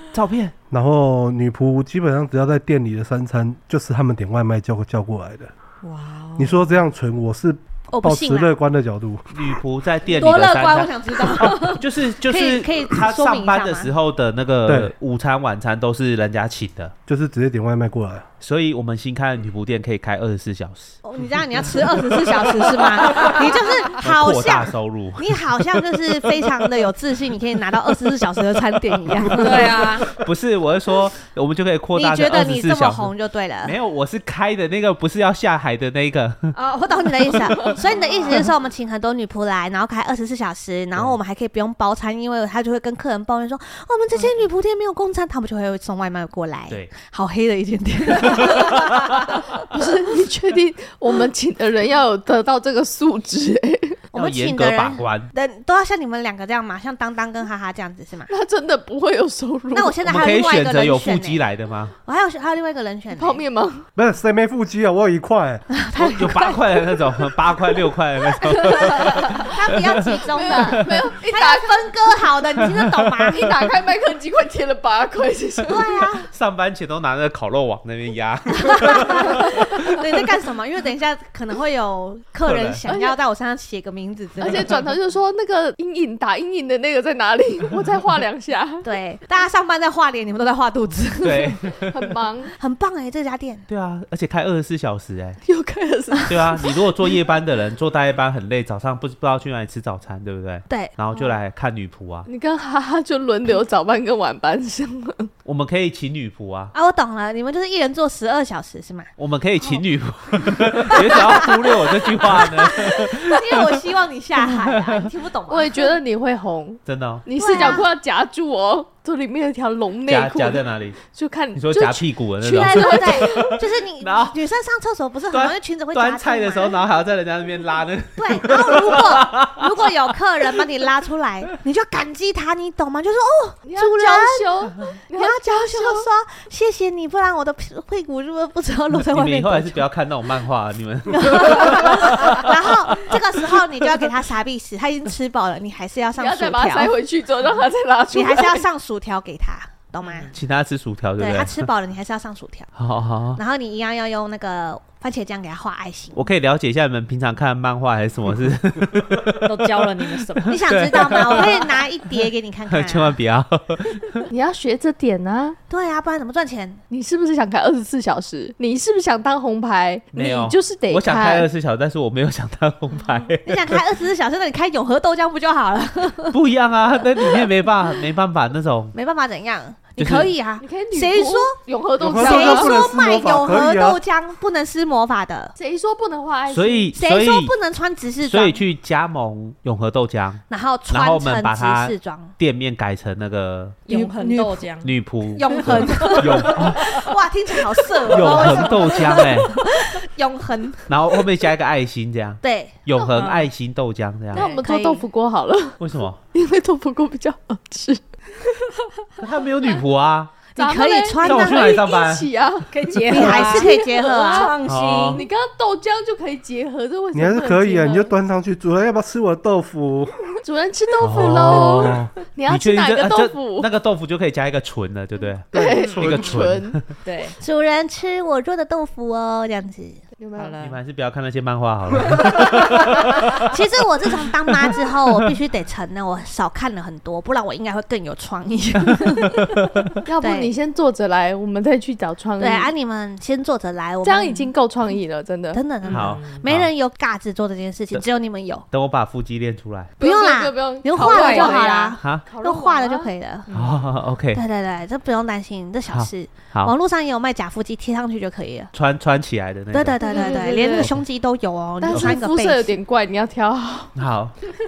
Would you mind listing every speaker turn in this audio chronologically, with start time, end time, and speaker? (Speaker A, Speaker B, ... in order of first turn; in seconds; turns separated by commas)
Speaker A: 0.1-0.5, Speaker B: 0.7-5.5, Speaker C: 5.8-6.8, Speaker B: 6.4-9.6, Speaker D: 7.9-8.5, Speaker A: 9.3-16.9, Speaker D: 10.1-13.9, Speaker B: 14.7-14.9, Speaker B: 17.1-18.2, Speaker A: 18.4-21.0, Speaker D: 21.0-29.9, Speaker A: 23.9-25.4, Speaker C: 29.4-30.1, Speaker A: 29.6-36.5, Speaker D: 31.9-33.8, Speaker D: 36.5-49.4, Speaker E: 49.6-54.0, Speaker A: 54.1-55.3, Speaker D: 54.1-58.3, Speaker E: 58.3-60.1, Speaker D: 59.7-61.5, Speaker A: 60.0-61.9, Speaker D: 62.0-63.4, Speaker E: 63.1-63.8, Speaker B: 64.0-65.6, Speaker D: 65.7-66.8, Speaker A: 66.0-71.0, Speaker D: 68.4-73.5, Speaker E: 68.8-69.5, Speaker E: 70.2-72.2, Speaker E: 73.3-76.1, Speaker D: 75.6-76.3, Speaker A: 76.3-79.8, Speaker D: 78.5-84.8, Speaker A: 82.5-82.8, Speaker E: 82.8-83.2, Speaker E: 84.4-88.9, Speaker D: 88.8-91.6, Speaker A: 91.2-92.1, Speaker E: 91.9-92.5, Speaker D: 92.6-93.6, Speaker A: 93.7-95.4, Speaker E: 95.4-96.9, Speaker A: 96.3-102.3, Speaker D: 100.7-100.9, Speaker E: 102.2-105.3, Speaker A: 105.4-106.7, Speaker D: 106.7-109.1, Speaker A: 109.2-113.7, Speaker D: 110.7-115.9, Speaker A: 114.5-115.1, Speaker E: 115.5-123.6, Speaker A: 116.8-117.2, Speaker D: 117.3-117.9, Speaker A: 120.0-121.0, Speaker A: 121.5-124.3, Speaker D: 122.4-126.8, Speaker A: 125.3-129.9, Speaker D: 128.2-134.5, Speaker E: 133.6-136.1, Speaker D: 135.1-139.8, Speaker A: 139.1-143.1, Speaker D: 141.1-146.9, Speaker E: 146.1-148.7, Speaker D: 148.1-150.3, Speaker C: 150.0-150.3, Speaker A: 150.3-151.5, Speaker D: 151.2-152.7, Speaker A: 152.8-153.4, Speaker D: 153.3-156.2, Speaker A: 156.1-161.8, Speaker C: 159.4-160.6, Speaker D: 160.5-163.2, Speaker A: 162.7-164.3, Speaker E: 164.3-165.6, Speaker D: 165.7-166.8, Speaker E: 166.9-171.5, Speaker A: 170.1-173.8, Speaker D: 173.4-176.4, Speaker A: 176.3-178.9, Speaker D: 178.9-181.6, Speaker A: 180.0-180.3, Speaker E: 180.6-182.8, Speaker B: 182.0-184.0, Speaker D: 182.1-185.5, Speaker E: 185.6-186.9, Speaker A: 186.5-187.5, Speaker D: 186.9-188.6, Speaker A: 188.2-193.8, Speaker D: 190.5-192.3, Speaker C: 193.9-194.9, Speaker D: 193.9-194.7, Speaker A: 194.8-196.9, Speaker D: 195.3-200.9, Speaker C: 195.7-196.2, Speaker A: 198.1-199.6, Speaker A: 200.9-204.5, Speaker D: 202.4-202.8, Speaker C: 203.2-203.4, Speaker E: 204.3-205.8, Speaker D: 204.3-205.1, Speaker A: 205.8-206.2, Speaker E: 206.3-209.2, Speaker A: 209.2-210.4, Speaker D: 210.5-211.8, Speaker E: 210.6-218.1, Speaker A: 211.2-212.3, Speaker C: 212.7-213.7, Speaker D: 213.0-214.5, Speaker C: 214.3-215.2, Speaker A: 214.6-215.2, Speaker B: 217.1-220.2, Speaker E: 220.4-223.7, Speaker A: 221.0-226.8, Speaker B: 221.1-222.1, Speaker E: 225.5-226.8, Speaker B: 225.5-226.2, Speaker C: 225.6-226.4, Speaker C: 227.0-227.4, Speaker D: 227.4-230.0, Speaker E: 230.2-230.6, Speaker C: 230.3-230.8, Speaker A: 230.6-233.3, Speaker D: 232.9-239.7, Speaker E: 240.1-242.7, Speaker D: 240.2-240.5, Speaker D: 242.4-244.5, Speaker E: 244.0-245.6, Speaker D: 245.5-248.7, Speaker C: 245.9-246.4, Speaker A: 245.9-246.7, Speaker A: 248.7-249.9, Speaker E: 250.0-253.1, Speaker D: 250.0-253.5, Speaker C: 251.0-251.7, Speaker A: 252.0-252.2, Speaker C: 253.5-253.8, Speaker A: 253.5-254.4, Speaker D: 254.3-258.7, Speaker A: 255.9-256.7, Speaker A: 258.7-261.0, Speaker D: 259.7-262.8, Speaker E: 260.0-260.9, Speaker E: 261.8-263.9, Speaker A: 263.9-264.3